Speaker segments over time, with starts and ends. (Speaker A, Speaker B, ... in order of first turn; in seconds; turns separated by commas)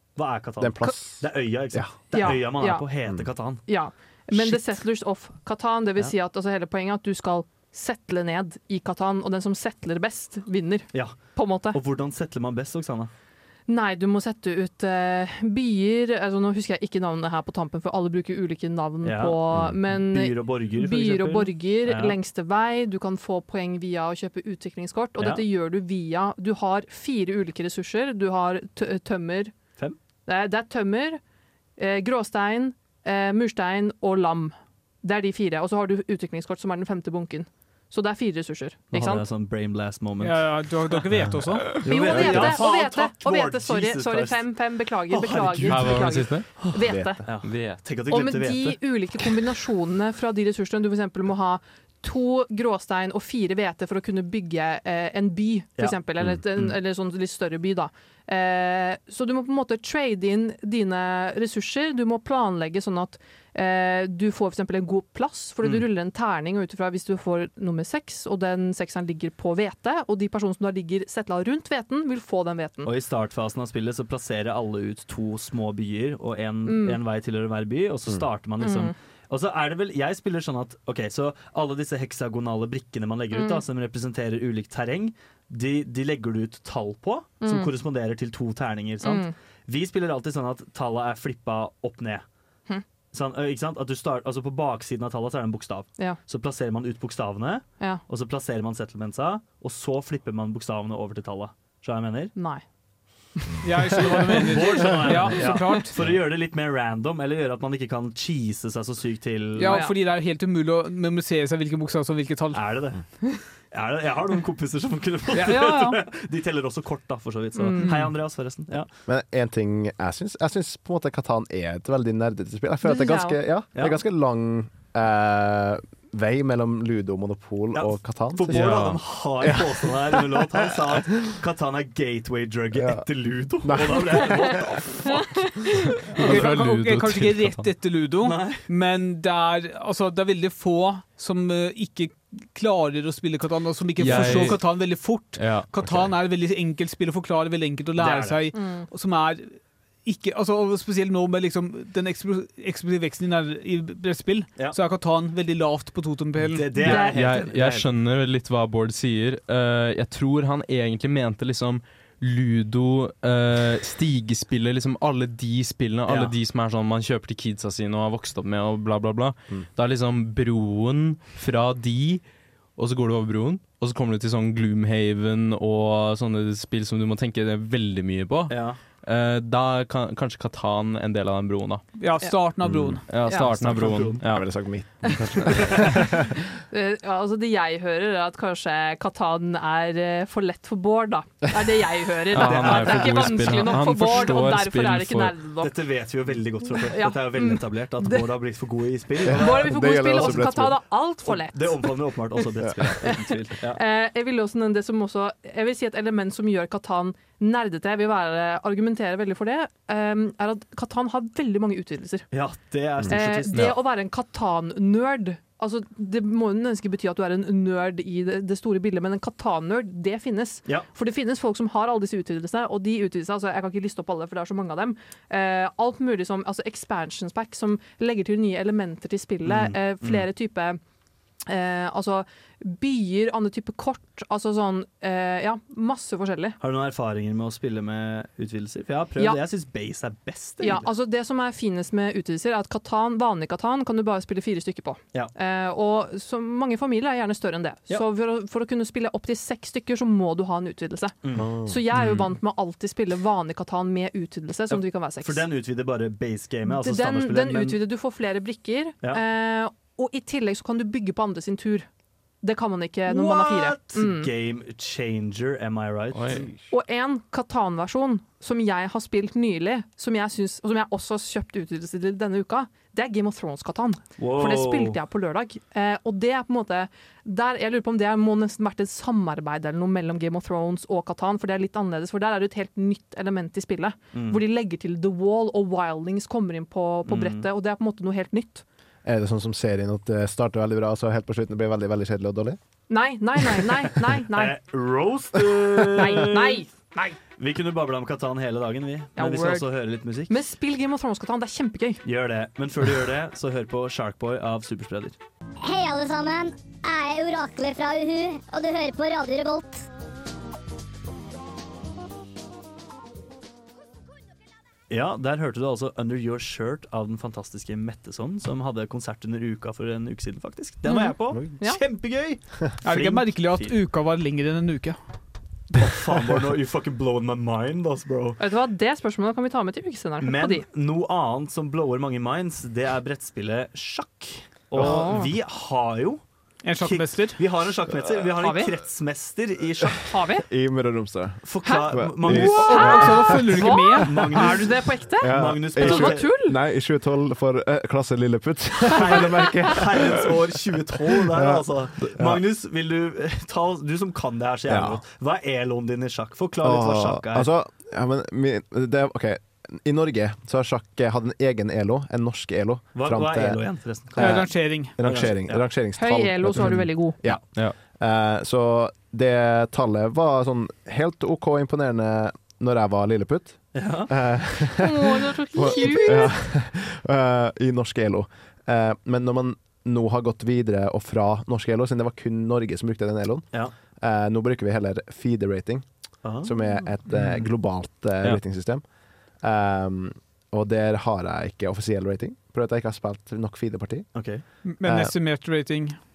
Speaker A: 0.2-3.6, Speaker B: 0.6-1.9, Speaker C: 2.1-2.9, Speaker C: 3.7-11.8, Speaker A: 10.9-13.1, Speaker C: 13.7-29.6, Speaker A: 19.0-22.2, Speaker A: 25.2-25.4, Speaker C: 30.3-31.2, Speaker C: 31.8-39.2, Speaker A: 38.9-40.9, Speaker D: 40.2-41.7, Speaker A: 41.8-46.7, Speaker C: 41.8-47.6, Speaker B: 42.0-42.6, Speaker E: 45.7-46.7, Speaker B: 46.8-47.2, Speaker A: 47.2-49.2, Speaker E: 47.4-47.8, Speaker C: 48.1-72.9, Speaker B: 56.2-56.7, Speaker A: 72.8-92.2, Speaker C: 76.7-77.0, Speaker C: 78.6-78.9, Speaker C: 83.3-83.6, Speaker C: 87.4-87.7, Speaker C: 89.0-89.3, Speaker A: 93.1-102.4, Speaker C: 102.4-102.6, Speaker D: 103.6-106.0, Speaker A: 104.3-109.8, Speaker D: 109.6-112.9, Speaker C: 109.7-110.0, Speaker A: 112.5-118.9, Speaker C: 115.4-116.0, Speaker C: 117.6-118.0, Speaker D: 117.8-118.1, Speaker B: 119.1-130.5, Speaker C: 122.8-123.4, Speaker A: 123.8-124.0, Speaker A: 127.7-135.5, Speaker E: 128.5-129.1, Speaker B: 132.7-134.7, Speaker D: 136.2-157.0, Speaker E: 136.2-137.7, Speaker A: 138.2-138.7, Speaker E: 144.0-145.9, Speaker A: 144.1-144.6, Speaker B: 145.8-146.1, Speaker A: 148.0-148.5, Speaker C: 148.5-148.9, Speaker A: 156.4-157.9, Speaker E: 156.8-172.2, Speaker C: 156.8-157.2, Speaker A: 166.1-166.3, Speaker E: 172.8-181.9, Speaker A: 178.5-178.8, Speaker D: 182.0-183.1, Speaker B: 182.6-183.0, Speaker E: 183.1-184.7, Speaker A: 183.2-184.2, Speaker B: 184.1-186.4, Speaker E: 185.5-185.7, Speaker C: 186.7-195.7, Speaker E: 192.3-195.3, Speaker A: 192.3-193.8, Speaker A: 195.6-203.8, Speaker C: 196.9-198.3, Speaker B: 199.2-200.8, Speaker C: 199.3-202.1, Speaker B: 202.6-203.1, Speaker C: 202.8-212.5, Speaker A: 212.3-213.7, Speaker C: 213.1-230.8, Speaker E: 213.5-213.8, Speaker A: 229.4-230.3, Speaker C: 231.5-236.6, Speaker A: 236.6-240.9, Speaker C: 240.6-255.4, Speaker A: 251.2-251.5, Speaker B: 251.3-251.8, Speaker E: 252.0-252.2, Speaker A: 254.7-257.8, Speaker C: 256.7-261.9, Speaker C: 262.4-264.3, Speaker A: 263.1-266.5, Speaker E: 266.1-266.5, Speaker C: 266.7-288.6, Speaker A: 274.2-275.0, Speaker A: 284.1-284.4, Speaker A: 287.1-287.5, Speaker B: 289.0-292.6, Speaker C: 292.9-294.5, Speaker A: 294.3-296.7, Speaker C: 296.0-297.2, Speaker A: 297.4-300.3, Speaker C: 299.2-299.7, Speaker C: 300.3-302.0, Speaker A: 302.0-305.2, Speaker F: 305.6-309.9, Speaker A: 314.9-323.8, Speaker C: 320.9-321.8, Speaker D: 322.8-325.0, Speaker A: 325.8-328.4, Speaker C: 328.4-330.6, Speaker A: 330.2-336.2, Speaker C: 334.8-335.3, Speaker B: 334.8-335.2, Speaker D: 336.6-337.4, Speaker A: 336.8-340.1, Speaker C: 338.4-338.7, Speaker C: 340.0-340.4, Speaker B: 340.5-344.5, Speaker A: 341.4-343.3, Speaker C: 341.7-346.6, Speaker D: 342.3-344.5, Speaker A: 344.0-346.3, Speaker B: 345.2-350.4, Speaker A: 348.9-357.5, Speaker B: 351.3-352.4, Speaker B: 354.7-355.0, Speaker B: 356.6-388.8, Speaker A: 362.9-365.7, Speaker D: 364.2-365.0, Speaker C: 366.0-367.2, Speaker E: 367.3-367.8, Speaker A: 373.7-374.1, Speaker C: 374.8-376.4, Speaker A: 386.2-388.4, Speaker B: 389.4-395.2, Speaker A: 394.1-394.4, Speaker D: 394.6-396.0